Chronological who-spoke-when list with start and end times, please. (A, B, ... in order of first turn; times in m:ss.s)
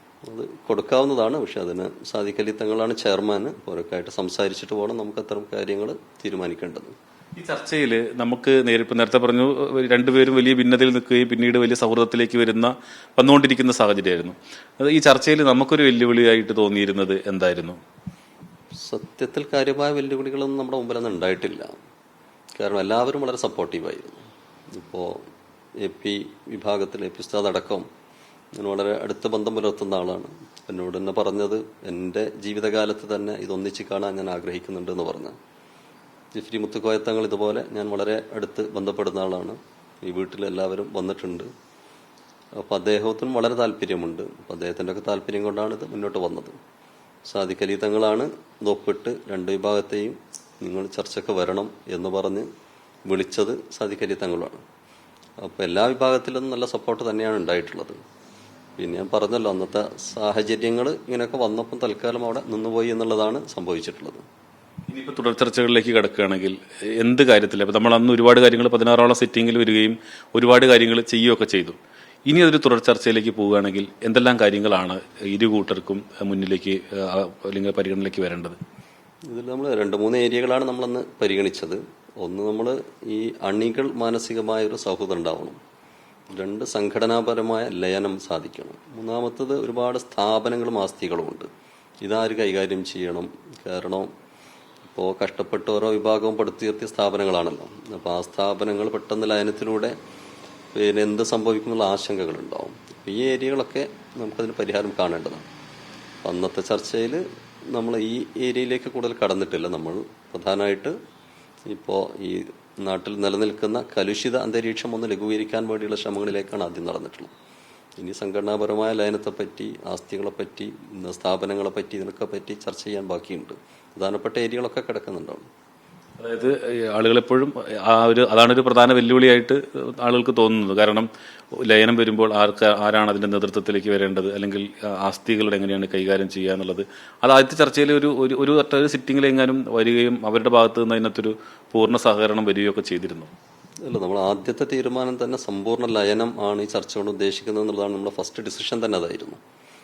0:00.3-0:06.9 A
0:07.4-0:17.8 B
0:18.8-0:21.7 A
0:22.6-0:25.2 A
0:25.8-0:27.9 A
0:28.6-0:35.4 A
0:36.4-0:41.5 A
0:42.6-0:46.6 A
0:47.3-0:52.5 A
0:53.0-0:54.6 A
0:55.4-0:58.0 A
0:58.8-1:04.2 A
1:04.9-1:18.6 B
1:19.3-1:25.6 A
1:26.3-1:31.5 A
1:32.0-1:34.1 A
1:34.8-1:39.9 A
1:40.8-1:45.4 A
1:46.2-1:51.0 A
1:51.7-1:57.3 A
1:58.0-2:05.4 A
2:06.2-2:23.3 B
2:23.8-2:29.4 A